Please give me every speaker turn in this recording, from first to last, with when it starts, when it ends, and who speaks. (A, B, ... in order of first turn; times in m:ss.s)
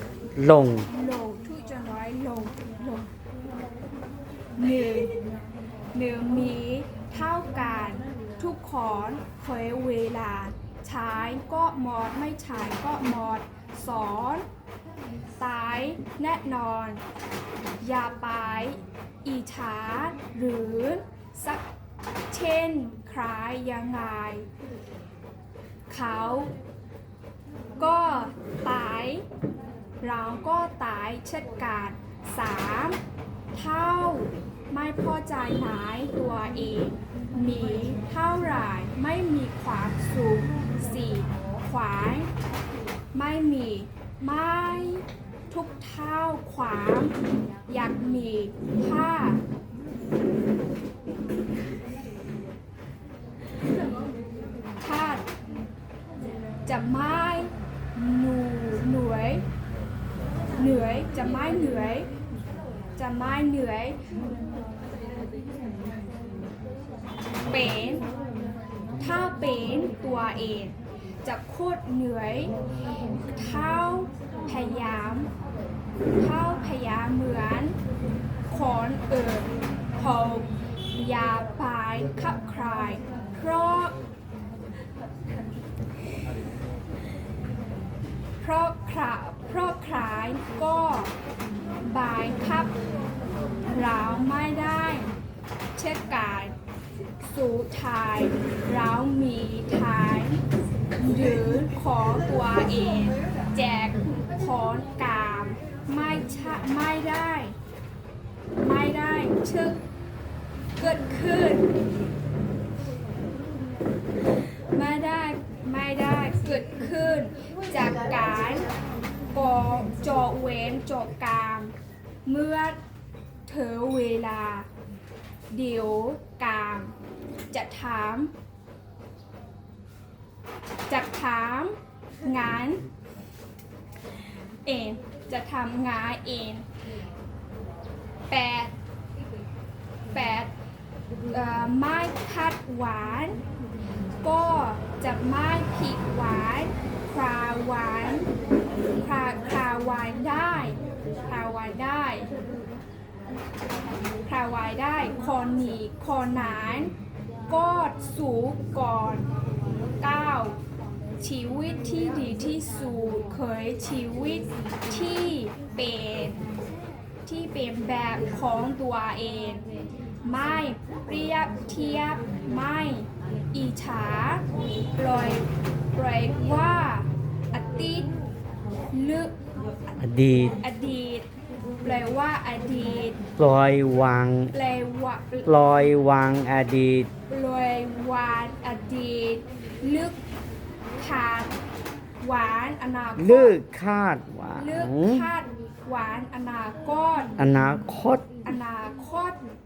0:00.4-0:00.9 A
0:00.9-0:03.1 B
0:04.6-0:05.2 B
0:05.9-0:14.4 B
0:15.4-0:17.0 B
0:17.8-0:21.6 B
0:22.3-0:24.5 B
0:25.9-0:26.5 B
0:27.8-0:29.2 B
0:30.0-0:33.0 B
0:33.5-0:42.3 B
0:43.1-0:47.1 B
0:47.7-0:49.4 B
0:54.8-0:55.2 B
0:56.6-0:59.4 B
1:00.6-1:02.1 B
1:03.0-1:04.0 B
1:07.5-1:08.0 B
1:09.0-1:12.5 B
1:13.3-1:15.3 B
1:16.2-1:17.8 B
1:18.5-1:24.0 B
1:28.4-1:31.1 B
1:31.8-1:32.7 B
1:33.6-1:35.1 B
1:35.8-1:36.5 B
1:37.2-1:40.4 B
1:41.0-1:47.5 B
1:48.6-1:49.8 B
1:50.8-1:51.7 B
1:54.7-1:58.6 B
1:59.3-2:01.7 B
2:02.2-2:02.8 B
2:03.4-2:04.7 B
2:05.5-2:06.9 B
2:07.5-2:08.3 B
2:10.9-2:12.8 B
2:14.6-2:16.6 B
2:18.3-2:18.7 B
2:20.1-2:20.5 B
2:21.3-2:23.4 B
2:24.2-2:28.3 B
2:29.0-2:32.3 B
2:34.2-2:36.9 B
2:37.5-2:39.3 B
2:40.0-2:40.6 B
2:41.2-2:46.4 B
2:47.2-2:49.6 B
2:50.2-2:54.4 B
2:55.0-2:58.1 B
2:58.9-2:59.3 B
3:00.0-3:00.6 A
3:00.6-3:01.3 B
3:01.8-3:03.2 B
3:03.4-3:04.5 A
3:04.5-3:05.5 B
3:05.4-3:07.1 A
3:07.3-3:10.2 B
3:11.0-3:11.6 B
3:12.2-3:13.6 B
3:13.2-3:15.3 A
3:14.6-3:17.3 B
3:17.4-3:18.3 A
3:18.4-3:19.4 B